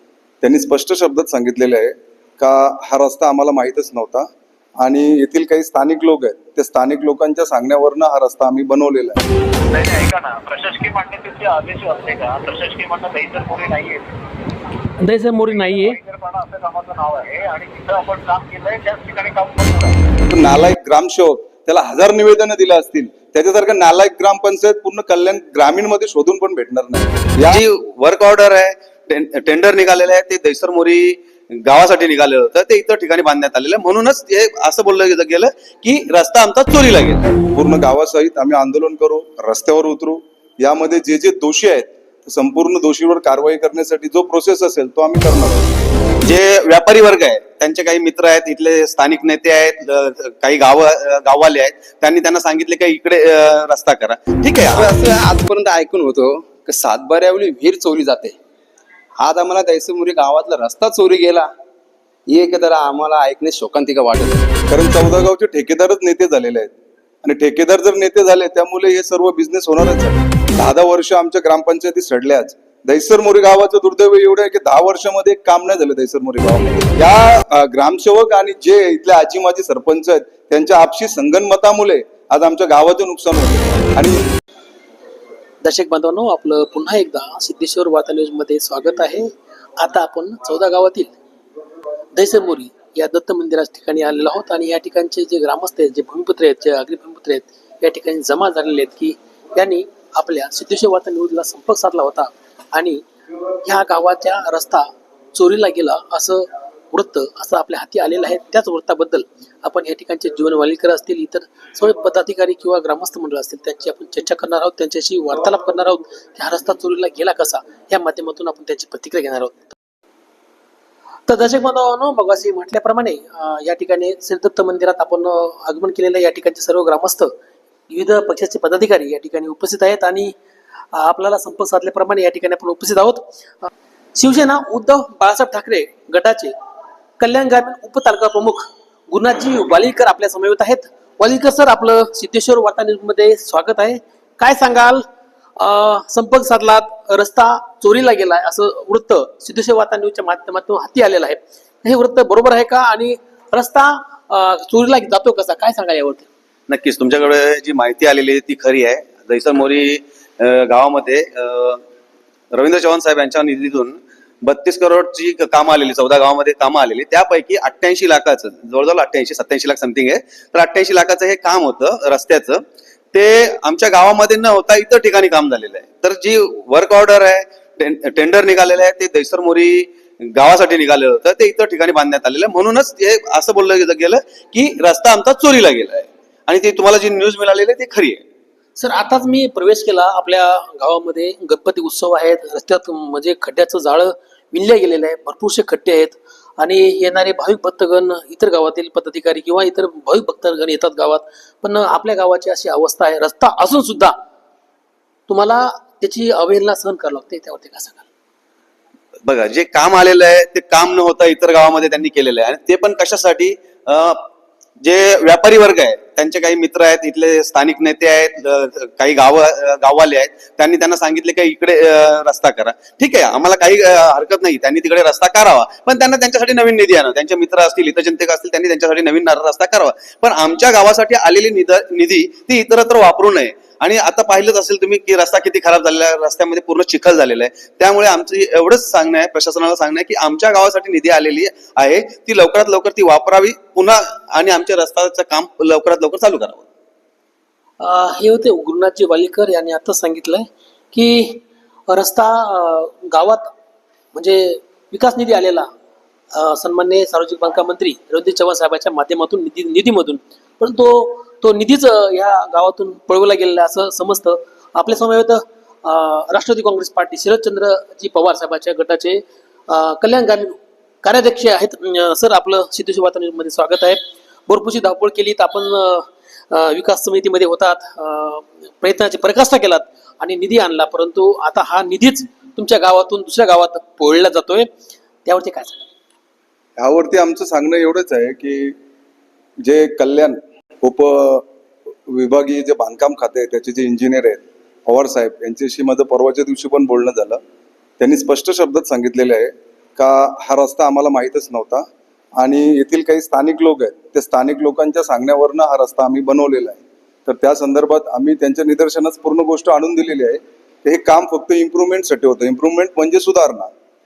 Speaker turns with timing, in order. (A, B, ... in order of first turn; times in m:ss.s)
0:00.4-0:04.3 A
0:04.8-0:09.2 A
0:09.7-0:14.1 B
0:15.0-0:16.0 C
0:15.5-0:20.0 B
0:20.3-0:27.6 A
0:27.5-0:37.4 D
0:37.5-0:45.7 A
0:46.2-0:54.9 D
0:54.7-0:58.4 E
0:59.2-1:01.5 E
1:02.3-1:04.5 E
1:04.7-1:24.2 A
1:25.6-1:31.1 C
1:32.2-1:43.0 C
1:43.6-1:59.8 C
2:01.3-2:07.3 C
2:07.9-2:10.4 C
2:10.9-2:13.3 C
2:14.2-2:16.5 C
2:17.2-2:25.0 C
2:25.6-2:36.3 C
2:36.7-2:41.8 D
2:42.5-3:08.2 D
3:08.8-3:24.1 C
3:25.3-3:28.1 C
3:29.3-3:34.3 D
3:34.8-4:06.6 D
4:07.8-4:13.5 C
4:14.1-4:15.7 C
4:16.3-4:44.7 C
4:45.2-4:45.9 C
4:46.8-4:48.8 A
4:49.6-4:51.4 A
4:52.1-4:57.4 A
4:58.0-5:01.9 A
5:02.4-5:13.7 A